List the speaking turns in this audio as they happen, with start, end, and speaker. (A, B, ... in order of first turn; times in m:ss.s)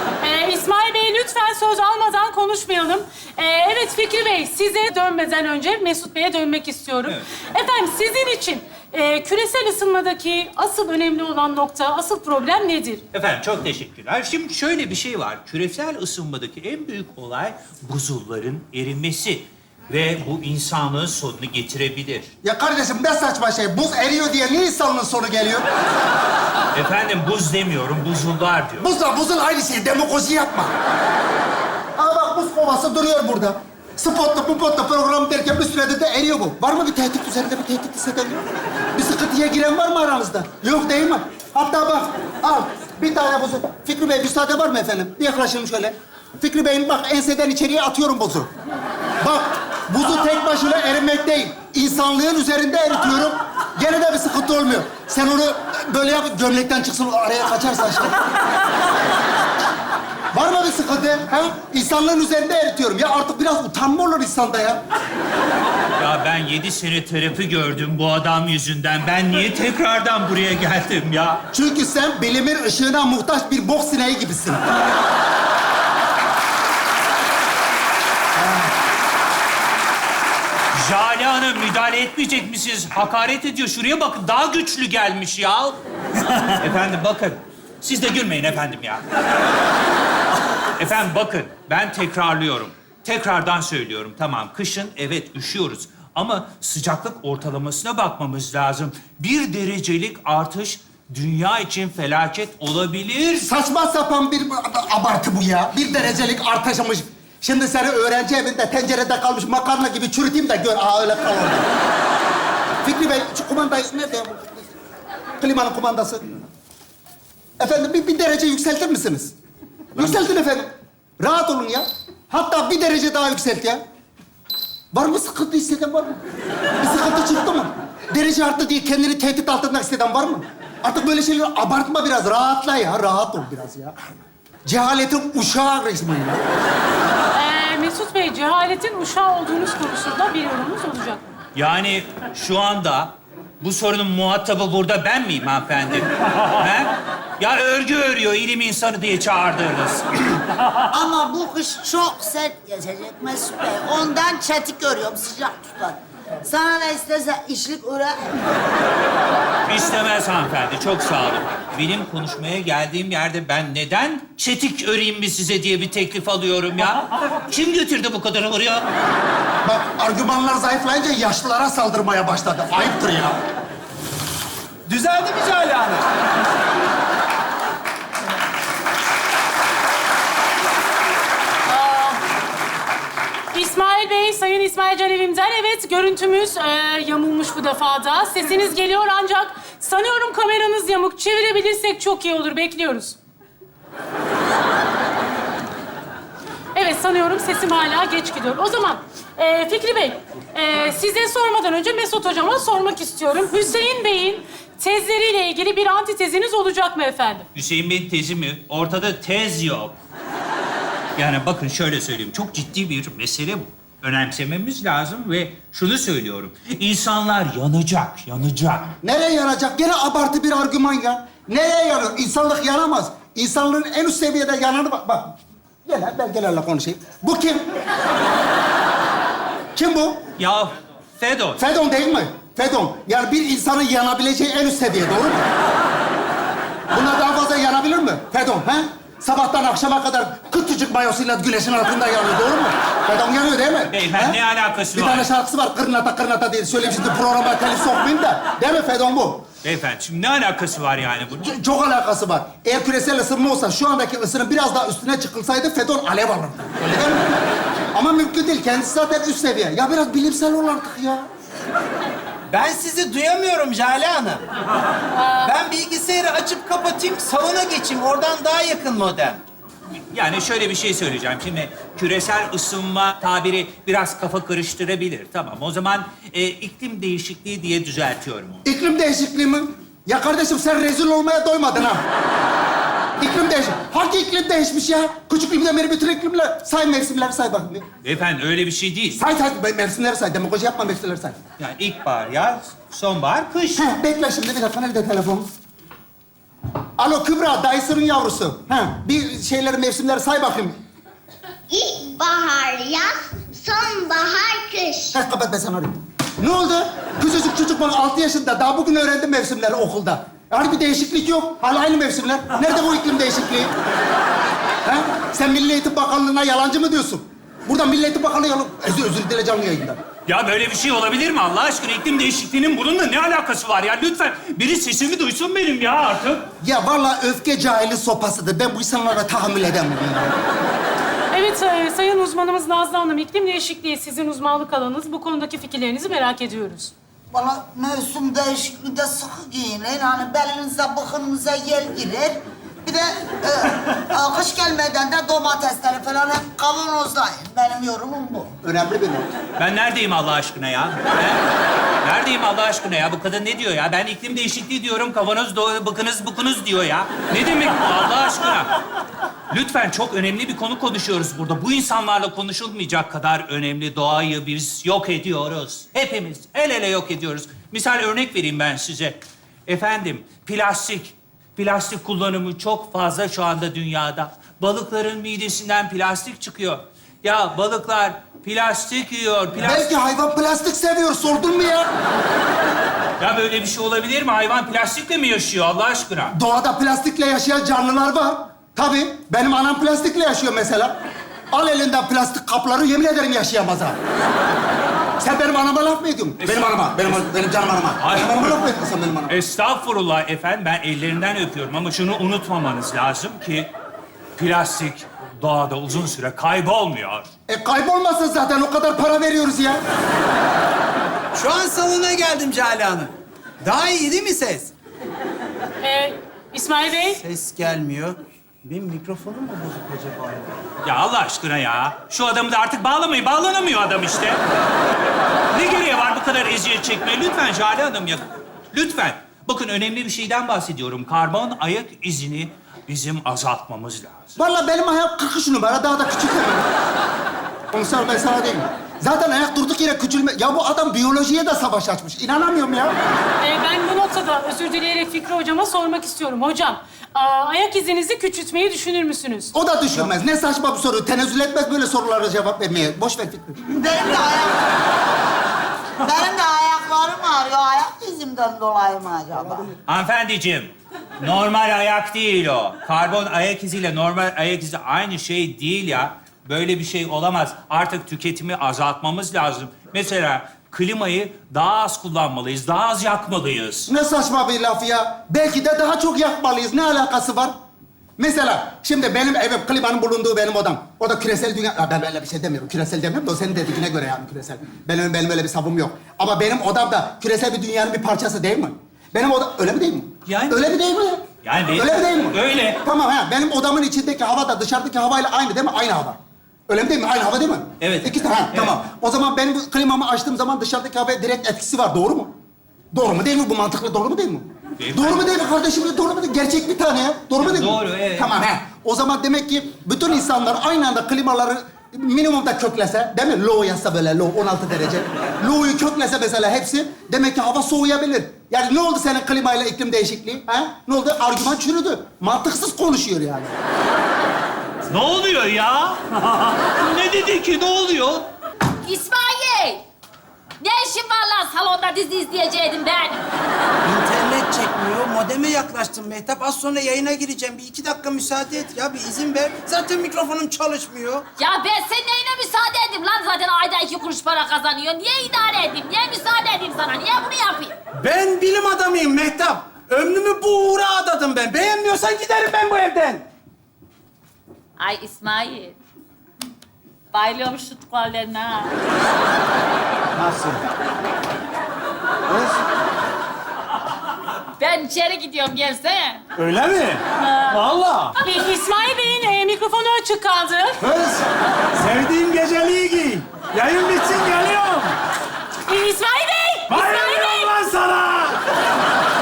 0:00.2-0:13.0 A
0:13.1-0:22.3 B
0:22.4-0:25.7 C
0:26.8-0:28.9 B
0:28.8-0:30.7 C
0:32.0-0:38.4 C
0:39.0-0:48.5 C
0:49.2-0:58.2 C
1:00.3-1:04.8 C
1:06.0-1:11.4 B
1:11.5-1:14.6 C
1:20.8-1:25.8 B
1:26.3-1:29.0 B
1:30.8-1:43.5 B
1:43.4-1:51.7 C
1:52.8-1:54.7 C
1:55.4-1:56.4 C
1:57.6-1:59.3 C
2:00.0-2:03.8 C
2:04.9-2:06.2 C
2:06.8-2:14.0 C
2:14.7-2:16.4 C
2:17.4-2:21.2 A
2:21.6-2:30.4 B
2:30.9-2:38.6 D
2:39.7-2:48.9 B
2:49.6-2:53.4 C
2:54.9-2:56.0 E
3:01.7-3:02.2 A
3:03.5-3:13.2 A
3:16.8-3:27.5 A
3:27.6-3:30.0 B
3:31.2-3:38.9 B
3:39.0-3:47.6 C
3:49.8-3:50.3 C
3:50.4-3:51.6 B
3:51.6-3:55.5 C
3:56.9-4:04.4 C
4:03.9-4:05.3 B
4:04.9-4:09.4 C
4:09.6-4:11.5 B
4:11.4-4:17.3 C
4:17.9-4:21.3 C
4:22.5-4:24.4 E
4:25.1-4:25.5 A
4:25.4-4:29.5 E
4:30.1-4:38.6 B
4:38.6-4:42.0 C
4:43.2-4:47.8 C
4:48.0-4:49.2 B
4:49.2-4:51.4 C
4:51.6-4:53.9 B
4:53.8-4:55.5 C
4:57.0-5:00.8 C
5:01.7-5:05.1 F
5:05.1-5:13.7 C
5:14.8-5:20.0 C
5:20.3-5:26.5 B
5:26.6-5:30.3 C
5:31.3-5:36.9 A
5:37.3-5:48.6 D
5:48.6-5:49.3 C
5:49.6-5:51.5 B
5:52.0-5:58.7 B
5:59.5-6:19.9 B
6:19.6-6:21.9 C
6:23.2-6:26.3 B
6:26.3-6:30.9 C
6:31.5-6:34.0 C
6:35.2-6:39.4 C
6:36.4-6:37.2 B
6:38.0-6:38.6 B
6:39.3-6:43.7 B
6:44.4-6:47.3 B
6:47.5-6:49.8 C
6:51.3-6:54.7 E
6:55.8-6:57.2 A
6:57.2-7:00.6 E
7:00.8-7:04.4 B
7:05.5-7:14.3 B
7:14.4-7:16.7 C
7:17.7-7:23.0 C
7:23.4-7:29.5 A
7:29.5-7:33.6 C
7:33.7-7:34.6 D
7:36.0-7:39.7 D
7:39.9-7:53.9 B
7:53.9-7:57.5 C
7:58.2-8:22.3 C
8:10.3-8:10.6 B
8:11.4-8:12.8 B
8:17.8-8:18.8 B
8:22.9-8:43.5 C
8:24.8-8:25.4 B
8:27.4-8:28.3 B
8:44.9-8:48.3 B
8:48.9-8:49.8 G
8:50.6-8:53.1 G
8:53.8-9:01.2 E
9:01.4-9:07.7 G
9:08.0-9:13.2 E
9:14.8-9:15.8 G
9:17.2-9:18.7 G
9:20.2-9:20.6 E
9:22.3-9:22.6 E
9:24.6-9:26.2 G
9:26.4-9:28.2 E
9:28.2-9:30.8 A
9:30.8-9:31.2 E
9:31.8-9:35.0 E
9:35.7-9:37.5 A
9:36.7-9:38.4 E